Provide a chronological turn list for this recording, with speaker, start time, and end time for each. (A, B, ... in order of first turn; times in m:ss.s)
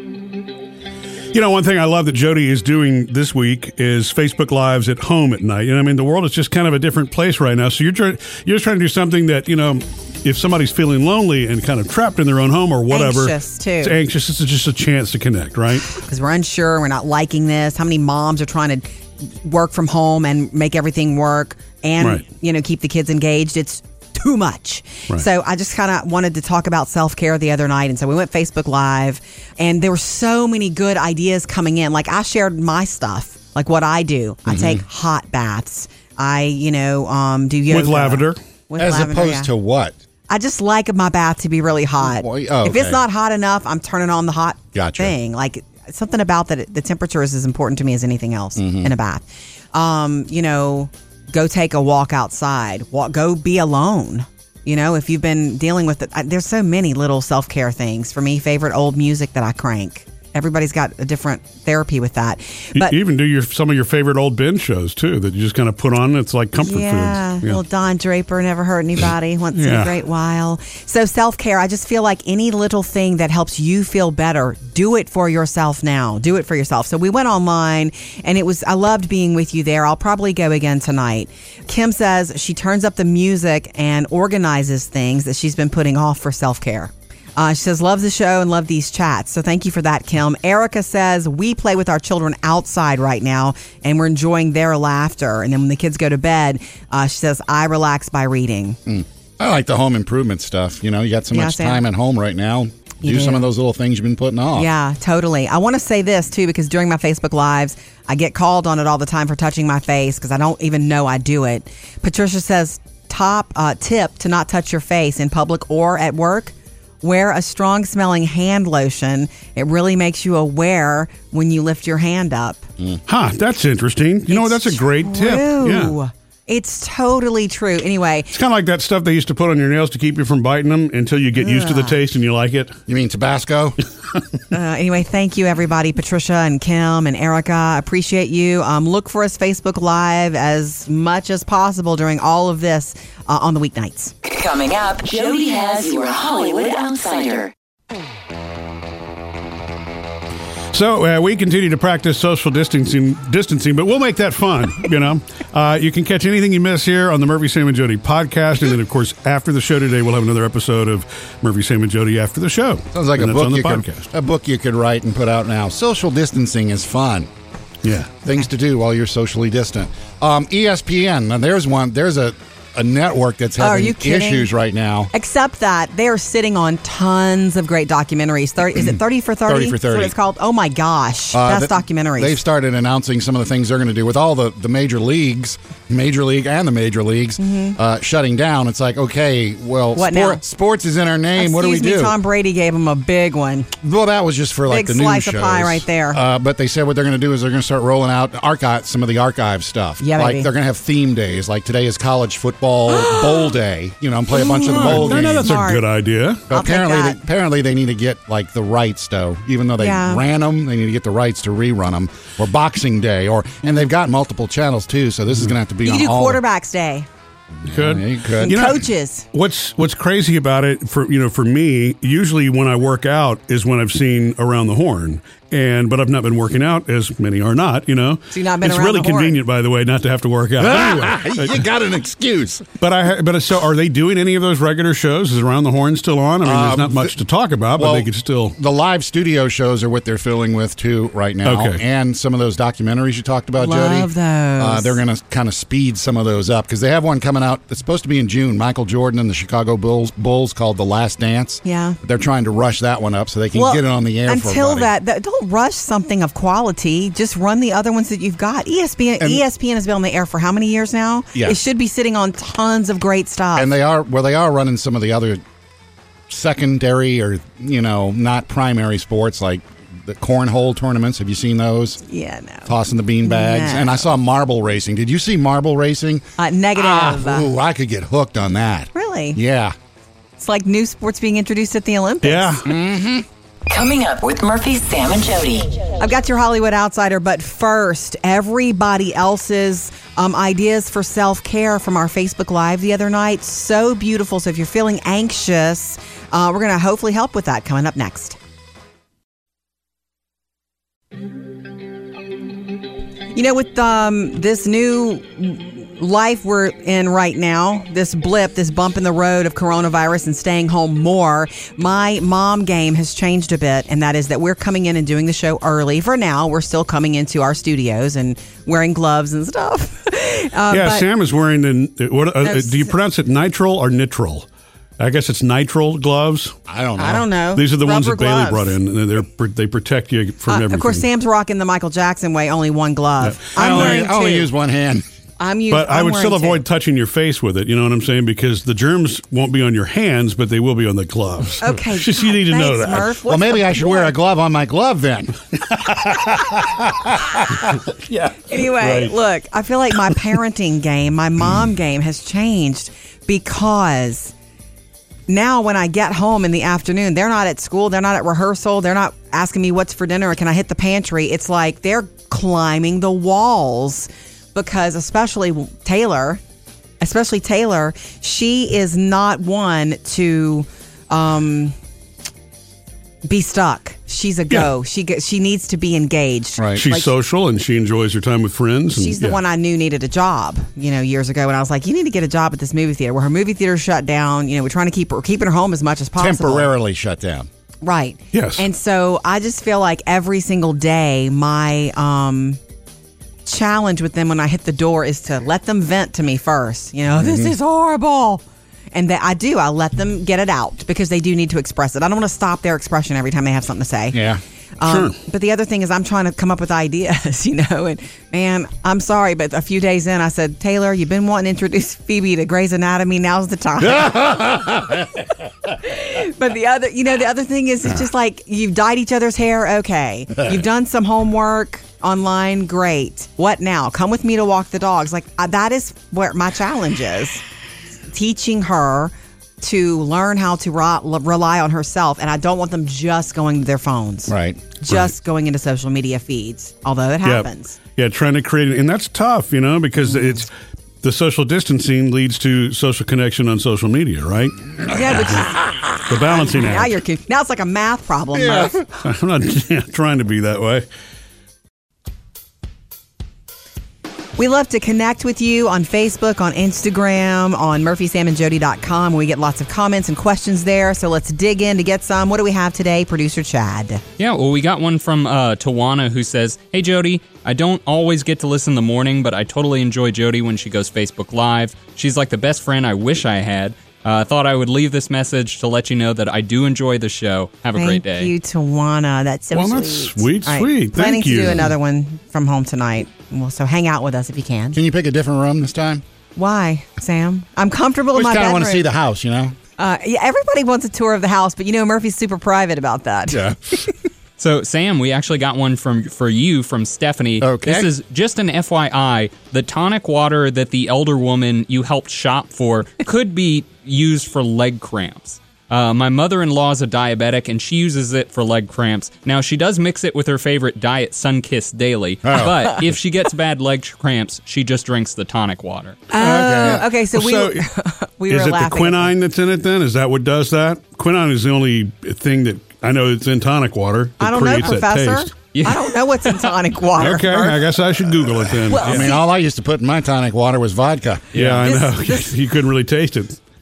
0:01.3-0:15.9 A
0:12.9-0:13.9 B
0:15.9-0:39.5 B
0:34.5-0:34.8 C
0:37.7-0:38.4 A
0:38.8-0:40.0 C
0:40.3-1:03.0 B
0:42.0-0:43.0 C
0:44.7-0:45.1 C
0:48.6-0:48.9 C
1:02.8-1:07.6 A
1:06.6-1:38.8 B
1:09.5-1:10.0 A
1:38.8-1:44.7 C
1:41.3-1:41.8 B
1:43.0-1:43.5 B
1:44.5-2:02.7 B
2:03.1-2:05.9 A
2:04.3-2:08.3 B
2:08.3-2:12.8 A
2:11.4-2:12.0 B
2:12.9-2:13.8 C
2:14.5-2:24.1 B
2:24.2-2:27.5 D
2:30.7-2:44.0 A
2:42.9-2:47.3 C
2:47.8-2:48.1 A
2:48.2-2:55.1 C
2:53.6-2:54.5 B
2:55.1-3:02.4 B
2:58.8-3:00.1 C
3:01.3-3:12.1 C
3:07.4-3:07.8 B
3:09.9-3:10.4 B
3:11.4-3:13.7 B
3:13.8-3:25.5 C
3:14.7-3:16.2 B
3:20.0-3:20.5 B
3:22.9-3:23.5 B
3:24.3-3:25.8 B
3:24.6-3:26.4 A
3:26.5-3:36.4 C
3:26.5-3:27.2 B
3:29.8-3:30.2 B
3:35.8-3:37.1 B
3:37.6-3:38.6 C
3:37.7-3:51.6 A
3:38.4-3:39.2 B
3:48.3-3:49.4 B
3:50.6-3:52.7 C
3:52.8-3:58.6 A
3:56.4-3:57.1 C
3:57.8-4:14.9 C
4:01.4-4:01.8 A
4:03.6-4:05.0 B
4:11.6-4:12.0 B
4:13.5-4:23.7 B
4:23.6-4:25.4 C
4:26.3-4:32.0 C
4:32.0-4:32.7 B
4:32.7-4:36.2 C
4:33.2-4:34.0 B
4:36.4-4:37.5 B
4:36.8-4:39.7 C
4:38.9-4:39.4 B
4:40.4-4:42.6 B
4:42.2-4:42.6 A
4:42.6-4:43.2 C
4:43.7-4:45.9 D
4:46.0-4:58.4 B
5:03.3-5:21.0 B
5:20.7-5:24.5 A
5:22.4-5:22.9 B
5:25.0-5:26.6 A
5:26.7-5:27.2 C
5:27.0-5:28.7 B
5:27.5-5:31.0 A
5:30.5-5:34.5 B
5:33.2-5:34.0 A
5:33.6-5:35.0 C
5:35.4-5:36.6 B
5:35.7-5:43.1 A
5:41.6-5:44.1 B
5:43.2-5:47.7 C
5:45.8-5:46.6 A
5:47.6-5:49.1 A
5:48.5-5:54.3 B
5:55.3-6:06.4 B
6:07.0-6:11.8 B
6:13.2-6:17.1 B
6:16.6-6:16.8 C
6:16.8-6:19.4 A
6:18.9-6:26.7 B
6:26.2-6:27.5 C
6:27.8-6:32.6 B
6:28.3-6:28.6 A
6:33.4-6:38.4 B
6:37.2-6:37.5 C
6:38.9-6:44.2 B
6:44.1-6:44.4 C
6:44.8-6:54.5 B
6:44.8-6:45.1 A
6:53.8-6:55.2 C
6:55.7-7:07.4 B
7:08.1-7:17.8 B
7:14.3-7:14.7 C
7:17.2-7:20.5 A
7:21.0-7:25.4 A
7:24.9-7:25.6 B
7:25.4-7:25.9 C
7:26.0-7:27.0 A
7:26.3-7:28.8 B
7:28.3-7:28.9 C
7:29.0-7:30.8 A
7:34.4-7:44.0 B
7:44.2-7:58.3 E
7:57.7-8:04.8 B
7:59.5-8:01.7 A
8:04.7-8:06.0 C
8:06.4-8:08.9 B
8:08.1-8:09.5 C
8:09.8-8:13.9 B
8:13.3-8:13.7 C
8:14.4-8:36.0 E
8:17.4-8:17.9 C
8:32.2-8:32.6 C
8:36.1-8:39.1 B
8:36.2-8:36.8 C
8:36.5-8:37.6 A
8:38.3-8:45.3 A
8:44.2-8:47.7 B
8:45.5-8:45.9 E
8:47.0-8:49.1 A
8:48.7-8:49.2 B
8:48.8-8:51.4 C
8:51.3-8:53.4 A
8:51.4-8:52.3 B